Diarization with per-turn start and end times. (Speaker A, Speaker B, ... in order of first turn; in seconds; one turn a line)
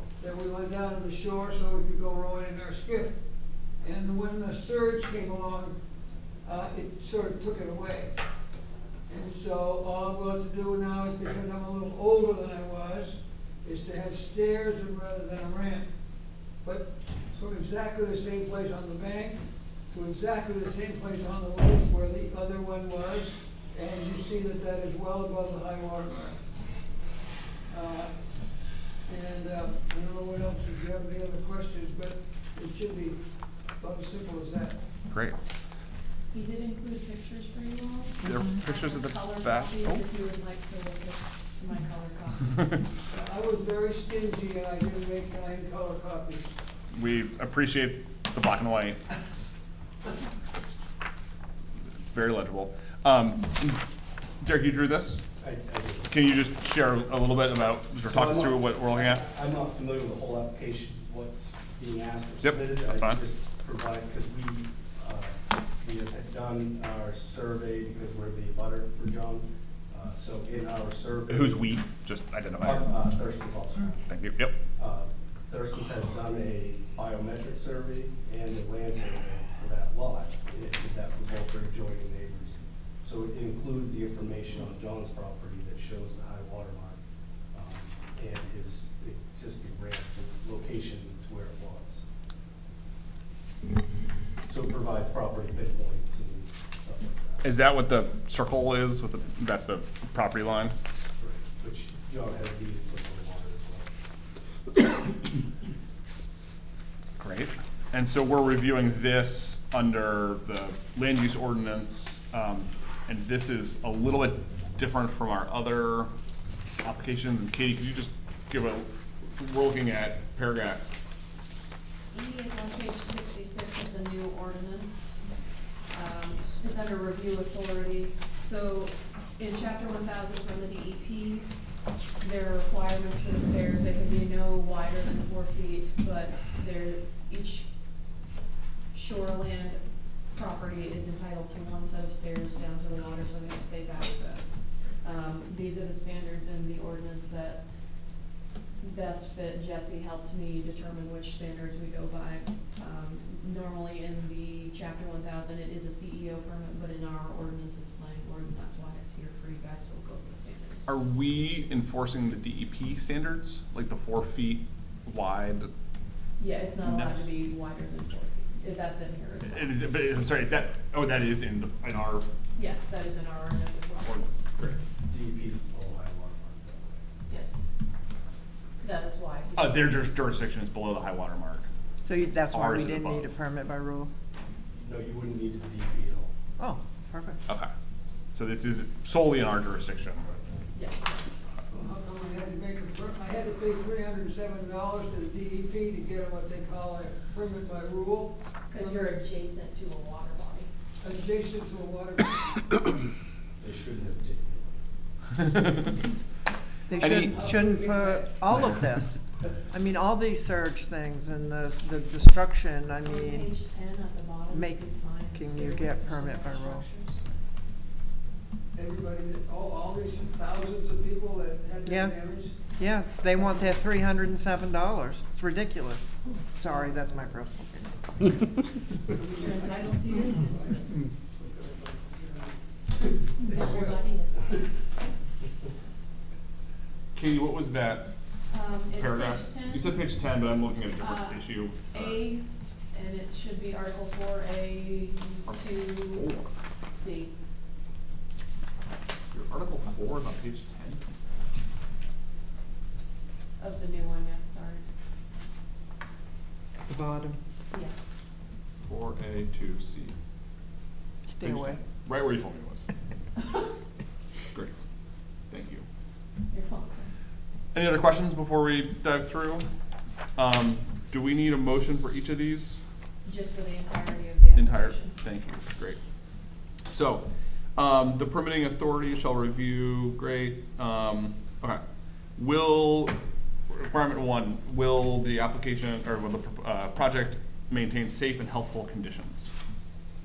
Speaker A: 0.2-3.2
Speaker A: 3.8-5.8
Speaker A: 6.4-8.1
Speaker A: 9.1-15.9
Speaker A: 16.6-26.4
Speaker A: 27.7-28.2
Speaker A: 29.0-33.2
Speaker A: 33.8-34.8
Speaker B: 35.1-35.4
Speaker C: 36.3-42.8
Speaker B: 38.2-40.0
Speaker A: 43.1-46.5
Speaker B: 46.9-49.0
Speaker B: 52.1-53.8
Speaker B: 54.4-55.2
Speaker D: 55.4-56.1
Speaker B: 56.1-59.2
Speaker D: 58.0-71.8
Speaker B: 62.4-63.2
Speaker B: 71.3-73.0
Speaker D: 72.6-74.1
Speaker B: 74.1-74.5
Speaker D: 74.8-87.0
Speaker D: 87.5-92.0
Speaker D: 94.5-97.4
Speaker B: 97.4-100.7
Speaker D: 101.2-103.9
Speaker B: 107.2-116.1
Speaker B: 116.8-120.8
Speaker C: 122.1-125.2
Speaker C: 125.9-131.5
Speaker C: 132.2-137.7
Speaker C: 138.9-147.7
Speaker C: 148.8-161.0
Speaker B: 160.9-165.7
Speaker C: 166.4-169.8
Speaker B: 166.8-167.3
Speaker B: 169.4-172.3
Speaker C: 172.5-174.2
Speaker B: 174.0-174.8
Speaker D: 175.0-177.0
Speaker C: 177.3-177.6
Speaker C: 178.8-180.0
Speaker B: 179.6-181.7
Speaker E: 182.0-184.1
Speaker B: 182.5-183.3
Speaker D: 184.7-186.3
Speaker E: 186.6-187.4
Speaker B: 188.3-190.4
Speaker C: 190.7-191.3
Speaker A: 191.7-199.2
Speaker C: 198.7-200.7
Speaker A: 201.0-202.4
Speaker D: 203.6-204.8
Speaker B: 205.4-205.8
Speaker E: 206.9-213.6
Speaker A: 206.9-208.4
Speaker B: 207.0-207.3
Speaker C: 213.0-217.2
Speaker E: 214.5-216.8
Speaker A: 218.7-222.6
Speaker E: 221.8-222.2
Speaker E: 222.8-228.6
Speaker A: 229.2-229.8
Speaker C: 229.2-230.7
Speaker A: 230.3-230.7
Speaker A: 231.4-232.5
Speaker C: 233.4-234.7
Speaker B: 237.1-238.1
Speaker C: 238.5-239.9
Speaker B: 238.9-242.2
Speaker C: 240.9-246.3
Speaker B: 245.5-246.5
Speaker C: 246.9-247.3
Speaker B: 249.3-251.0
Speaker C: 253.6-254.8
Speaker E: 256.9-257.4
Speaker C: 257.7-258.0
Speaker B: 258.8-260.1
Speaker E: 261.3-261.8
Speaker B: 261.4-262.9
Speaker C: 263.4-263.7
Speaker B: 265.5-265.8
Speaker C: 266.5-267.1
Speaker B: 267.7-269.7
Speaker B: 270.4-272.8
Speaker C: 273.2-275.2
Speaker B: 274.5-276.0
Speaker B: 276.9-281.8
Speaker B: 282.4-289.5